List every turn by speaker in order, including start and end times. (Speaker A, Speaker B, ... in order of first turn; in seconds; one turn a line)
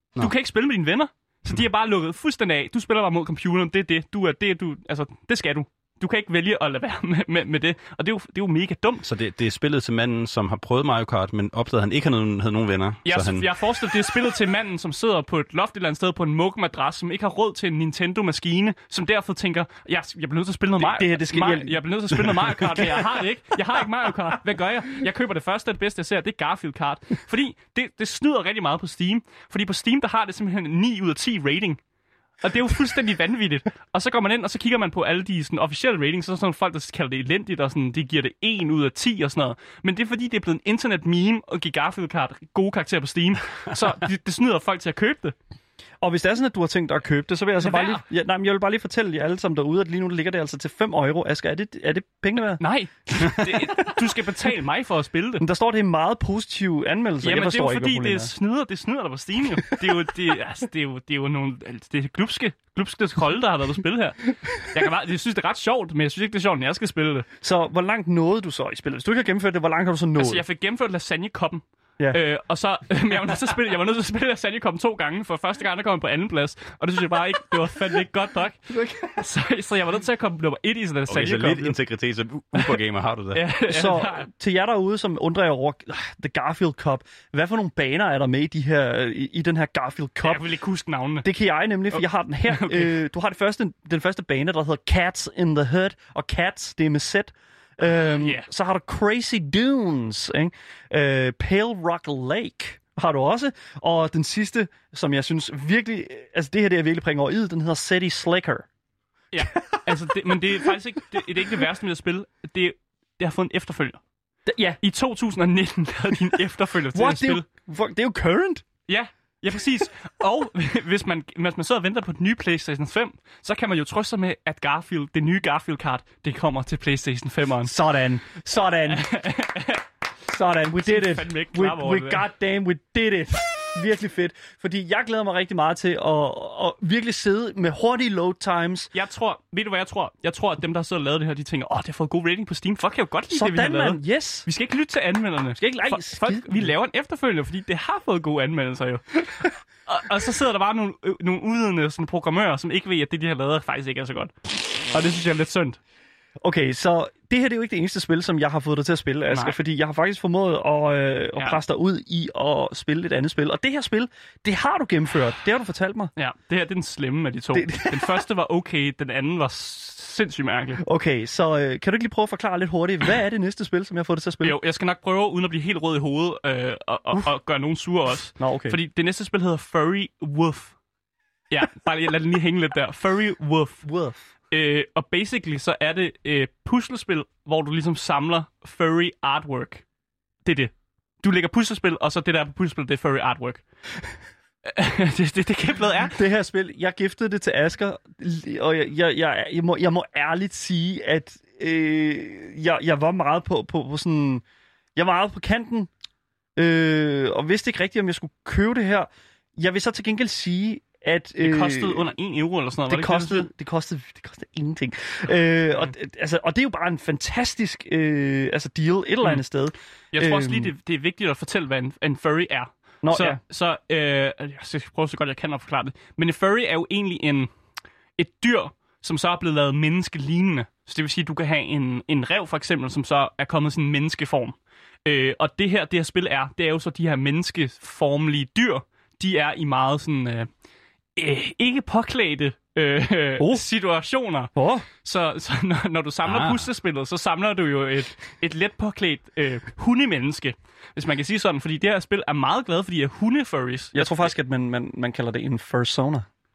Speaker A: 0.2-9.0
Speaker B: 9.0-13.5
Speaker A: 13.0-31.8
Speaker C: 20.8-23.0
Speaker A: 32.4-45.3
Speaker C: 46.0-54.0
Speaker A: 47.6-48.0
Speaker A: 52.6-55.4
Speaker C: 55.4-58.3
Speaker A: 57.2-67.3
Speaker C: 67.4-70.4
Speaker A: 70.2-81.8
Speaker C: 78.7-79.2
Speaker B: 81.1-83.4
Speaker A: 83.3-84.3
Speaker C: 83.7-90.4
Speaker A: 90.2-91.3
Speaker C: 91.2-108.7
Speaker A: 91.9-93.0
Speaker A: 98.2-98.5
Speaker A: 109.3-114.0
Speaker C: 109.4-110.7
Speaker C: 114.5-114.8
Speaker A: 114.8-117.4
Speaker C: 116.9-118.6
Speaker A: 118.9-127.7
Speaker C: 127.6-129.1
Speaker A: 128.8-129.8
Speaker C: 130.2-138.9
Speaker A: 130.8-132.2
Speaker A: 138.9-155.8
Speaker C: 143.3-144.5
Speaker C: 145.6-146.7
Speaker C: 156.4-166.1
Speaker A: 159.3-159.6
Speaker A: 166.2-170.8
Speaker C: 167.5-168.2
Speaker C: 170.8-174.6
Speaker A: 174.4-180.7
Speaker C: 178.4-178.8
Speaker A: 181.5-183.8
Speaker C: 183.8-184.2
Speaker A: 184.5-189.8
Speaker A: 190.4-193.6
Speaker A: 194.7-196.2
Speaker C: 196.1-204.4
Speaker C: 204.9-205.9
Speaker C: 206.6-212.1
Speaker A: 211.4-213.5
Speaker C: 212.9-220.7
Speaker A: 220.1-227.5
Speaker C: 223.0-223.4
Speaker A: 228.2-240.5
Speaker A: 241.2-254.3
Speaker C: 243.4-243.6
Speaker C: 244.5-244.9
Speaker B: 246.2-246.7
Speaker C: 253.9-256.2